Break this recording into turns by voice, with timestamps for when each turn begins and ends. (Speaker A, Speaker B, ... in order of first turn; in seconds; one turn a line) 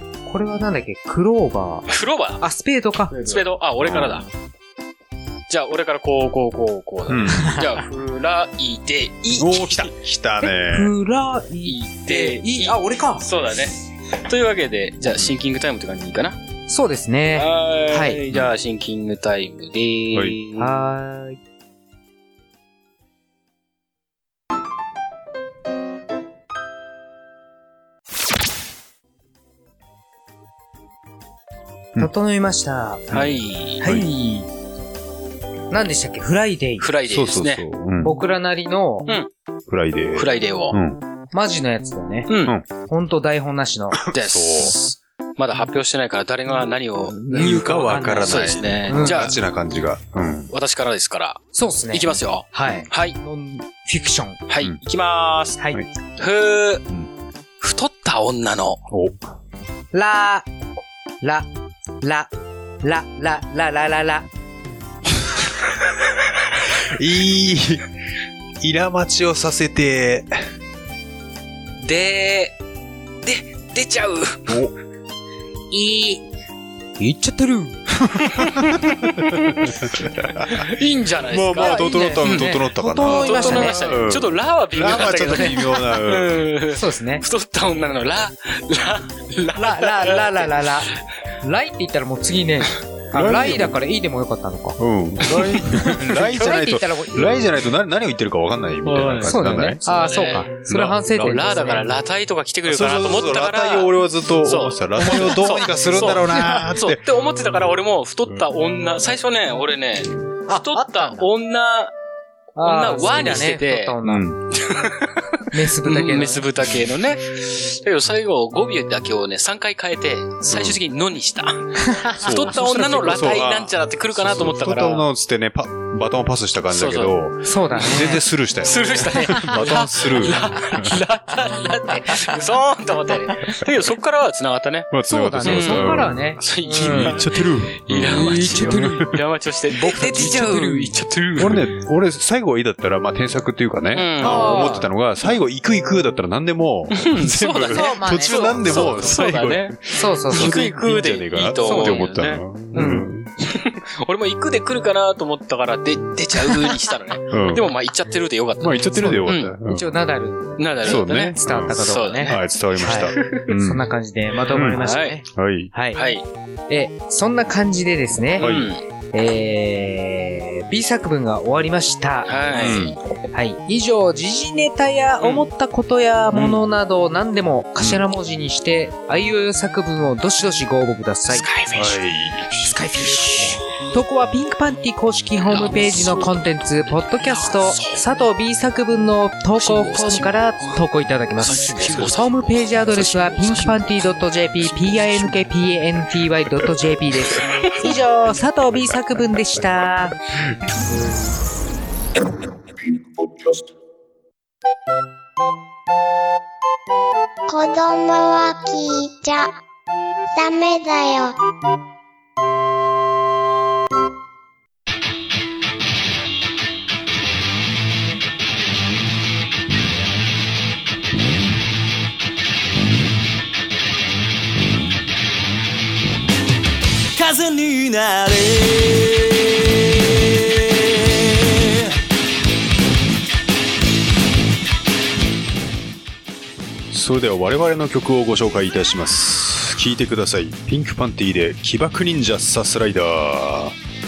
Speaker A: 0.3-1.9
Speaker B: 1.9-2.4
Speaker A: 2.4-3.4
Speaker B: 3.1-4.3
Speaker C: 3.8-4.2
Speaker B: 5.5-9.9
Speaker C: 7.1-7.6
Speaker C: 9.4-10.9
Speaker A: 10.7-13.2
Speaker B: 11.6-16.4
Speaker A: 16.7-18.2
Speaker B: 17.4-20.7
Speaker A: 20.6-21.4
Speaker A: 32.0-33.1
Speaker C: 33.1-34.1
Speaker B: 33.1-33.8
Speaker A: 33.8-34.5
Speaker A: 35.7-36.9
Speaker B: 36.8-37.6
Speaker C: 37.1-38.1
Speaker A: 38.0-39.1
Speaker C: 39.7-41.0
Speaker B: 40.1-40.8
Speaker A: 41.3-42.3
Speaker B: 42.3-42.5
Speaker A: 42.9-44.0
Speaker C: 44.1-44.7
Speaker B: 44.1-49.4
Speaker A: 47.2-49.2
Speaker C: 47.3-50.5
Speaker B: 50.5-53.1
Speaker A: 51.5-54.4
Speaker B: 54.5-55.6
Speaker B: 56.2-56.8
Speaker B: 57.6-58.8
Speaker C: 58.9-59.2
Speaker A: 59.9-60.5
Speaker A: 61.2-61.5
Speaker A: 62.0-62.3
Speaker A: 62.8-64.2
Speaker C: 66.8-67.9
Speaker C: 68.6-70.5
Speaker B: 71.8-72.5
Speaker B: 73.2-74.6
Speaker C: 74.5-74.7
Speaker A: 75.7-76.2
Speaker A: 77.0-77.8
Speaker C: 78.0-80.7
Speaker B: 78.4-79.7
Speaker B: 80.4-91.0
Speaker C: 81.3-86.3
Speaker A: 81.6-83.9
Speaker A: 86.7-87.2
Speaker A: 89.6-97.4
Speaker C: 93.1-93.8
Speaker C: 94.8-99.8
Speaker B: 98.8-100.5
Speaker A: 99.2-101.9
Speaker C: 100.7-101.2
Speaker B: 101.1-111.9
Speaker C: 102.6-107.0
Speaker A: 106.4-106.6
Speaker A: 110.5-111.3
Speaker B: 112.5-113.9
Speaker A: 112.6-114.2
Speaker C: 114.0-114.4
Speaker B: 114.5-125.0
Speaker A: 115.5-116.4
Speaker C: 120.5-120.8
Speaker A: 121.8-122.2
Speaker C: 122.2-131.0
Speaker B: 126.7-127.2
Speaker A: 127.4-128.2
Speaker B: 128.6-141.7
Speaker A: 129.2-129.8
Speaker A: 131.9-132.3
Speaker C: 134.9-136.2
Speaker A: 135.1-137.2
Speaker C: 136.8-139.1
Speaker A: 138.0-139.1
Speaker A: 139.7-140.9
Speaker C: 141.4-153.3
Speaker B: 143.9-144.8
Speaker A: 144.2-144.9
Speaker B: 146.9-149.8
Speaker A: 147.7-148.4
Speaker A: 149.9-150.6
Speaker B: 150.3-159.6
Speaker A: 151.6-152.0
Speaker A: 152.7-153.1
Speaker C: 157.3-157.7
Speaker C: 158.6-159.9
Speaker A: 158.9-166.0
Speaker B: 160.6-163.5
Speaker C: 160.8-163.8
Speaker C: 164.5-164.8
Speaker B: 164.6-165.2
Speaker C: 165.3-165.7
Speaker B: 165.9-166.2
Speaker A: 166.7-168.5
Speaker B: 168.4-168.8
Speaker C: 168.4-168.7
Speaker A: 169.1-172.8
Speaker B: 172.2-172.9
Speaker C: 172.5-173.0
Speaker A: 173.3-181.4
Speaker B: 175.2-175.4
Speaker C: 177.8-178.0
Speaker B: 181.3-182.0
Speaker C: 181.7-182.8
Speaker A: 182.7-200.2
Speaker B: 182.9-183.6
Speaker B: 185.4-188.1
Speaker B: 189.6-190.8
Speaker B: 191.4-195.4
Speaker B: 197.4-197.7
Speaker D: 207.5-209.6
Speaker D: 210.3-211.4
Speaker E: 227.1-231.9
Speaker C: 236.9-243.7